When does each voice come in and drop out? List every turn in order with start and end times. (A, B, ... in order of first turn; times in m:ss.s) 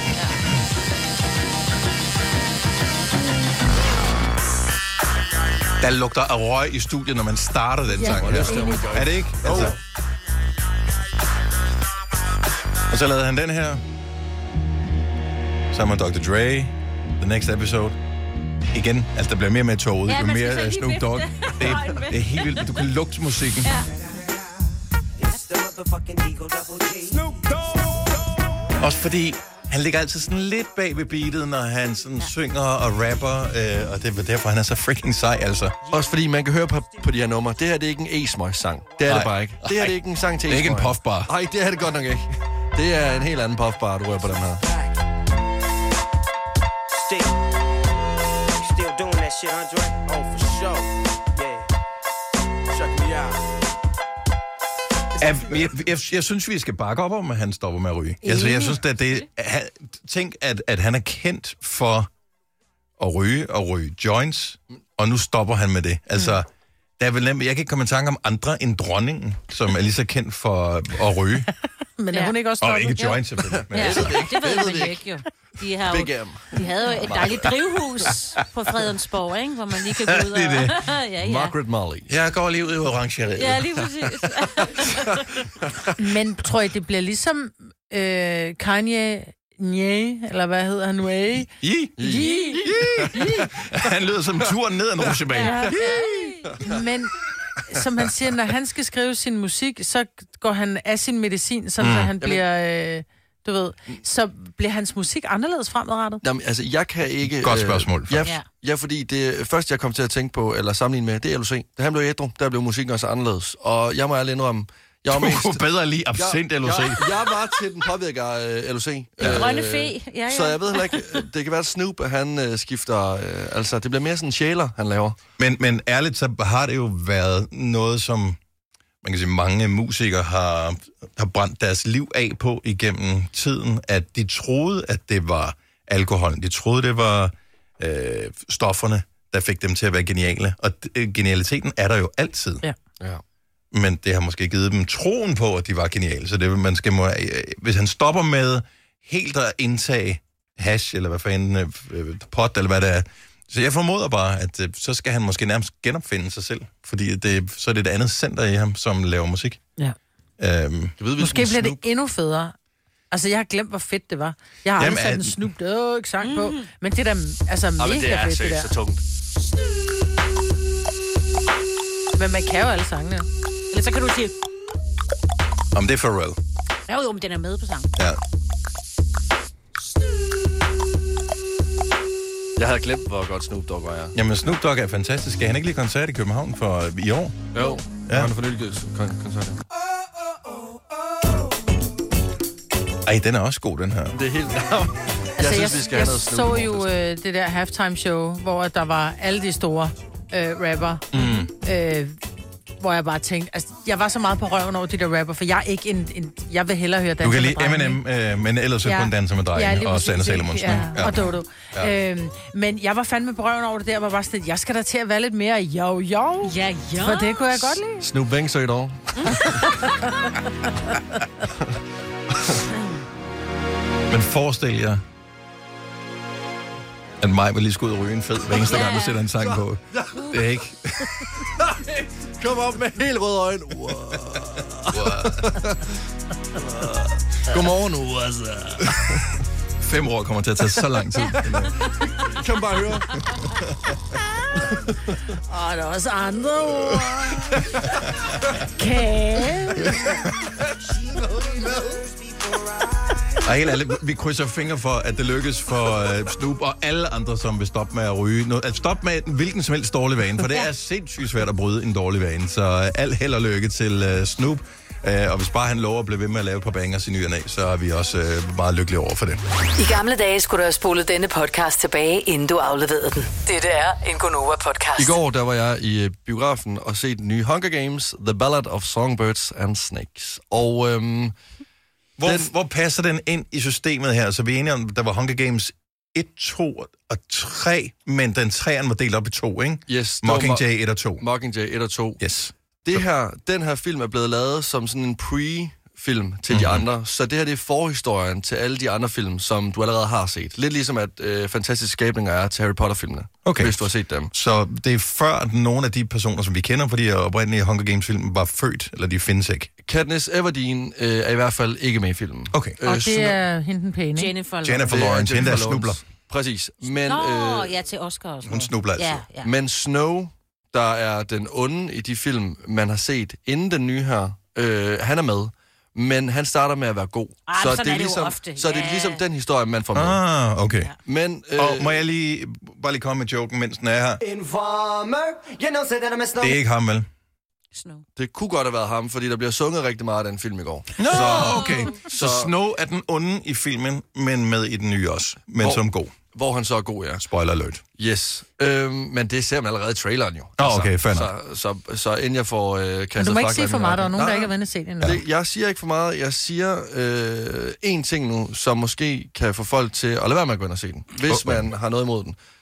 0:05.8-0:09.8 A
0:07.9-0:09.0 B
0:08.0-0:09.8 C
0:12.9-0:13.8 A
0:15.7-0:18.0 A
0:18.7-0:23.7 A
0:20.1-0:22.8 D
0:23.6-0:23.9 D
0:25.2-0:28.2 E
0:28.8-0:35.8 A
0:35.8-0:36.1 E
0:35.9-0:44.6 C
0:39.0-0:41.3 A
0:46.9-0:47.4 E
0:48.6-0:51.7 E
0:52.7-0:53.4 E
0:55.2-1:02.1 A
0:58.2-0:58.7 B
1:03.0-1:06.5 A
1:07.0-1:11.5 A
1:12.0-1:13.2 B
1:12.6-1:14.2 A
1:13.5-1:15.0 C
1:13.7-1:21.5 D
1:15.8-1:17.5 C
1:20.1-1:20.8 A
1:21.2-1:22.1 C
1:22.1-1:23.7 A
1:23.4-1:25.2 D
1:26.0-1:31.5 B
1:31.6-1:36.0 A
1:32.0-1:33.5 C
1:32.0-1:33.4 B
1:35.3-1:36.5 D
1:35.4-1:36.0 B
1:36.6-1:37.1 B
1:37.7-1:46.2 B
1:41.8-1:42.1 A
1:46.2-1:55.6 C
1:47.2-1:48.3 A
1:55.1-1:57.2 A
1:56.1-2:05.2 C
1:59.2-1:59.5 A
1:59.2-2:01.2 D
2:05.4-2:08.4 A
2:09.0-2:22.6 A
2:23.7-2:39.6 A
2:40.4-2:41.0 A
2:41.0-2:41.8 C
2:41.2-2:42.5 B
2:43.1-2:48.7 B
2:44.8-2:45.4 A
2:46.2-2:46.6 D
2:47.8-2:49.0 C
2:52.2-2:53.2 B
2:53.7-2:54.3 D
2:55.7-2:56.4 A
2:56.9-2:57.9 D
3:02.6-3:04.1 C
3:04.1-3:07.4 A
3:07.5-3:09.6 C
3:08.1-3:08.3 A
3:13.0-3:14.2 A
3:14.1-3:16.9 C
3:15.4-3:22.2 B
3:21.1-3:21.5 A
3:22.8-3:28.0 B
3:27.2-3:31.9 A
3:28.8-3:38.0 B
3:36.4-3:37.4 D
3:38.0-3:39.6 C
3:39.2-3:39.9 D
3:42.3-3:42.6 C
3:44.1-3:45.0 A
3:47.2-3:51.1 A
3:48.6-3:49.2 D
3:49.4-3:50.4 C
3:51.6-3:56.0 C
3:54.9-3:55.5 A
3:56.5-3:59.4 C
3:59.8-4:01.8 A
4:01.4-4:03.2 C
4:04.6-4:05.0 C
4:05.5-4:07.6 B
4:08.8-4:10.0 B
4:10.8-4:13.3 E
4:13.4-4:29.4 A
4:29.8-4:35.2 F
4:35.0-4:41.3 C
4:42.2-4:51.2 A
4:42.2-4:42.5 C
4:49.9-4:50.6 C
4:51.2-4:52.2 C
4:52.2-4:53.0 A
4:52.8-5:04.3 C
4:56.5-4:56.8 A
5:03.4-5:09.7 A
5:09.8-5:13.4 C
5:12.5-5:12.8 A
5:12.8-5:14.3 B
5:14.2-5:15.0 D
5:14.6-5:16.0 A
5:14.9-5:17.7 C
5:16.8-5:19.5 D
5:18.4-5:19.2 A
5:19.4-5:30.2 C
5:27.5-5:29.2 D
5:29.9-5:30.9 A
5:31.0-5:32.0 C
5:31.6-5:34.2 A
5:34.2-5:36.6 E
5:36.4-5:37.1 A
5:37.7-5:38.0 D
5:38.2-5:42.5 C
5:41.0-5:46.1 A
5:41.1-5:41.9 D
5:45.6-5:47.2 C
5:47.2-5:47.8 A
5:48.0-6:02.4 C
5:50.6-5:51.3 A
5:53.2-5:55.2 B
6:01.2-6:01.7 A